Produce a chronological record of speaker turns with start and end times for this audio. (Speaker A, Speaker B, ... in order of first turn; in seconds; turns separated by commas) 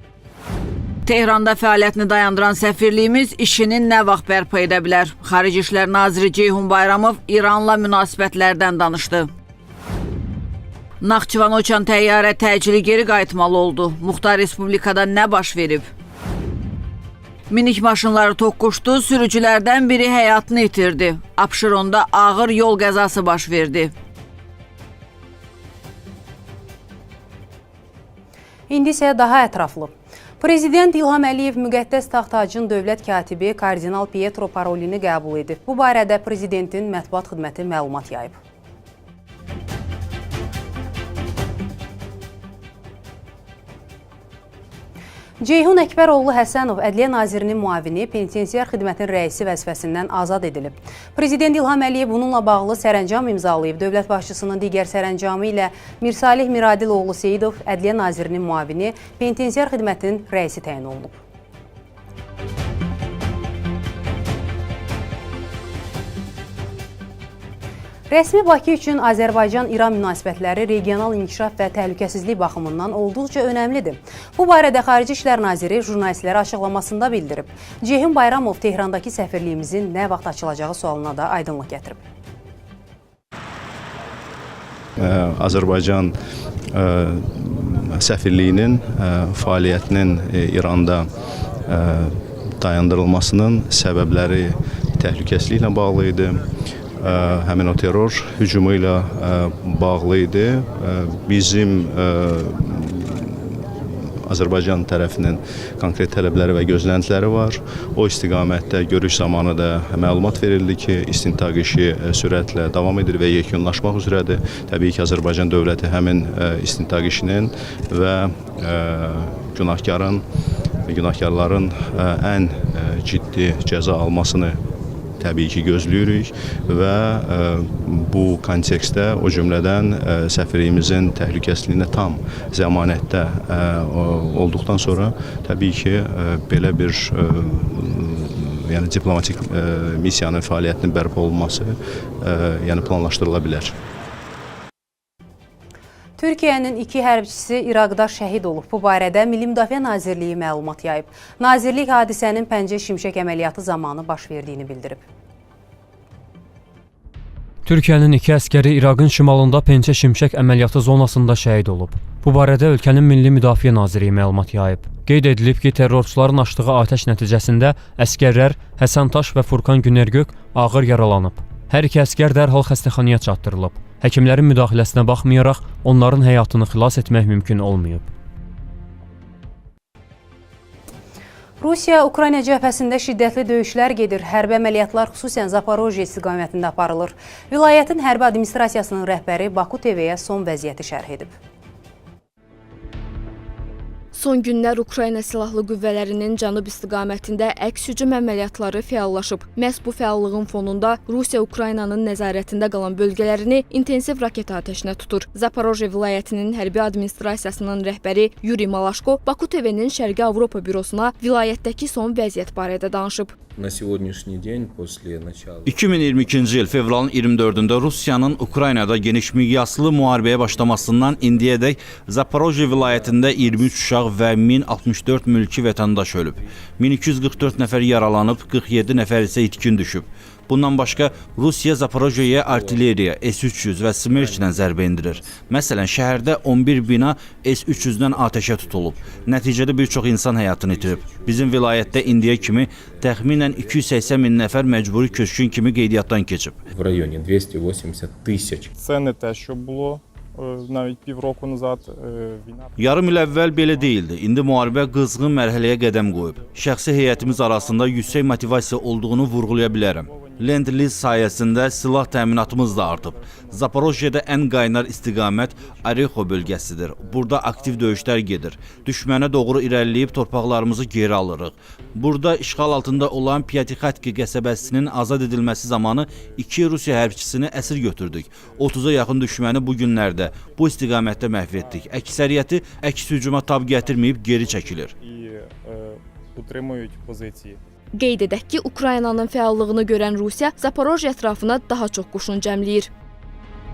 Speaker A: 1.1-9.3, Speaker A: 11.0-15.9, Speaker A: 17.5-23.9, Speaker B: 28.7-38.4, Speaker B: 45.4-61.2, Speaker B: 68.1-82.0, Speaker C: 85.0-86.1, Speaker C: 86.8-91.1, Speaker C: 91.7-96.4, Speaker C: 97.0-103.7, Speaker C: 104.3-120.2, Speaker C: 120.9-124.6, Speaker C: 125.2-143.7, Speaker B: 146.2-155.0, Speaker D: 157.7-178.1, Speaker B: 181.6-191.3, Speaker E: 194.1-213.3, Speaker F: 213.6-221.7, Speaker G: 215.7-246.6, Speaker F: 222.5-223.9, Speaker F: 224.5-225.2, Speaker F: 227.3-228.5, Speaker F: 229.6-229.8, Speaker F: 231.1-231.4, Speaker F: 232.2-233.0, Speaker F: 233.5-245.7, Speaker F: 246.7-248.7, Speaker H: 248.8-254.2, Speaker G: 252.8-284.9, Speaker H: 255.9-261.5, Speaker H: 262.1-264.0, Speaker H: 265.3-269.3, Speaker H: 272.4-272.9, Speaker H: 274.4-275.6, Speaker H: 277.8-278.7, Speaker H: 281.5-281.9, Speaker H: 284.4-287.6, Speaker E: 287.9-292.9